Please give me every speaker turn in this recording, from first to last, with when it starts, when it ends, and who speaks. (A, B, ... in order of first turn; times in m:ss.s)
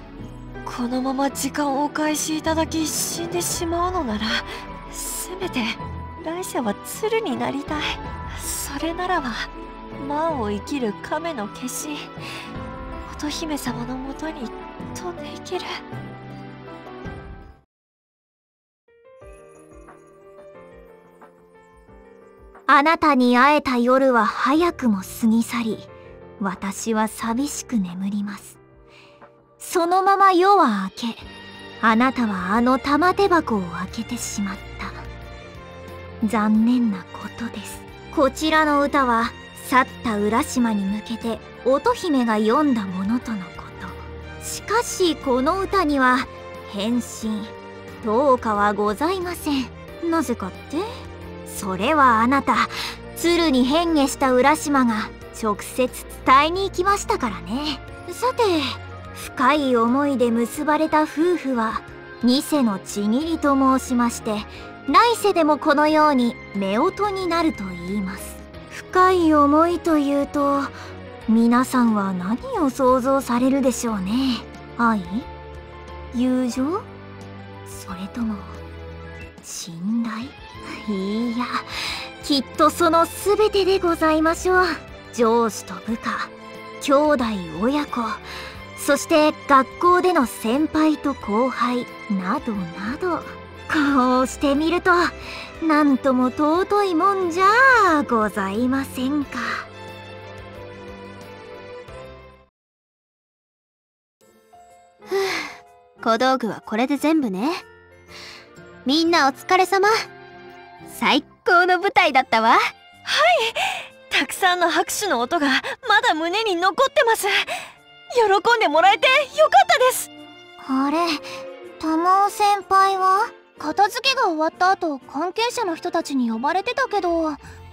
0:00.6-0:12.1 A
0:13.1-0:15.8 A
0:22.7-0:25.9 B
0:26.4-0:28.6 B
0:29.6-0:31.2 B
0:31.8-0:35.0 B
0:36.2-0:50.9 B
0:51.4-1:10.7 B
1:11.3-1:15.3 B
1:16.1-1:16.9 B
1:17.7-1:18.6 B
1:19.4-1:21.7 B
1:22.2-1:28.2 B
1:28.8-1:39.7 B
1:45.1-1:47.6 C
1:48.8-1:49.9 C
1:50.9-1:52.6 C
1:53.0-1:57.5 A
1:58.2-2:00.1 A
2:00.6-2:03.3 B
2:03.6-2:07.4 D